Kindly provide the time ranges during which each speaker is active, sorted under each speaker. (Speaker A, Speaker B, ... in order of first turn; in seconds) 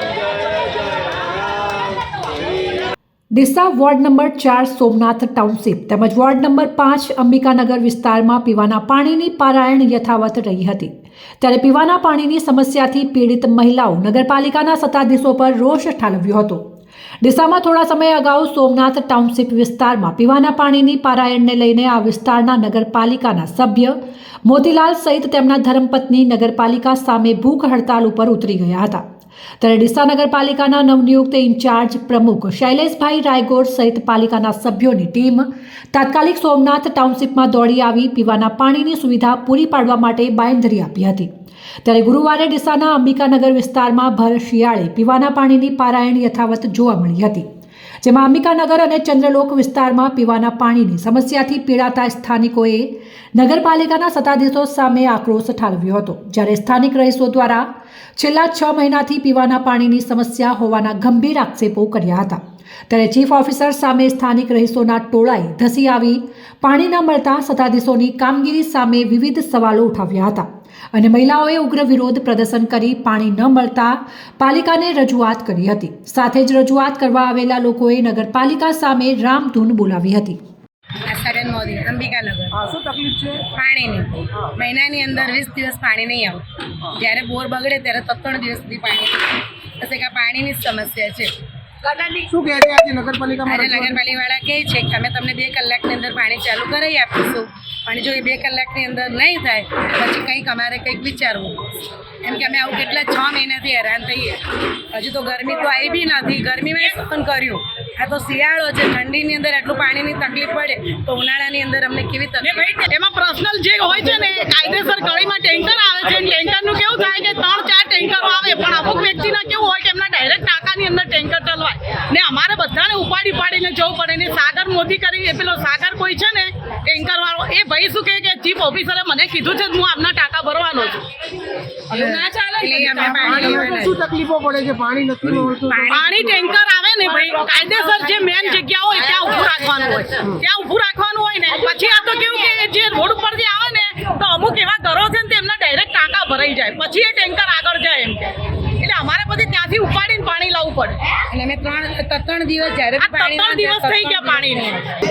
Speaker A: 3.3-16.7, 17.2-29.0, 29.6-41.3, 41.8-47.5, 48.0-80.4
Speaker B: 81.0-82.5, 83.5-91.4, 91.9-92.2, 93.4-101.7, 102.2-112.7, 131.9-134.0, 135.7-136.6, 137.2-137.7, 151.3-154.7
Speaker C: 82.5-83.5, 92.2-94.0, 133.0-136.3
Speaker D: 112.4-133.8, 135.9-151.2, 153.0-154.9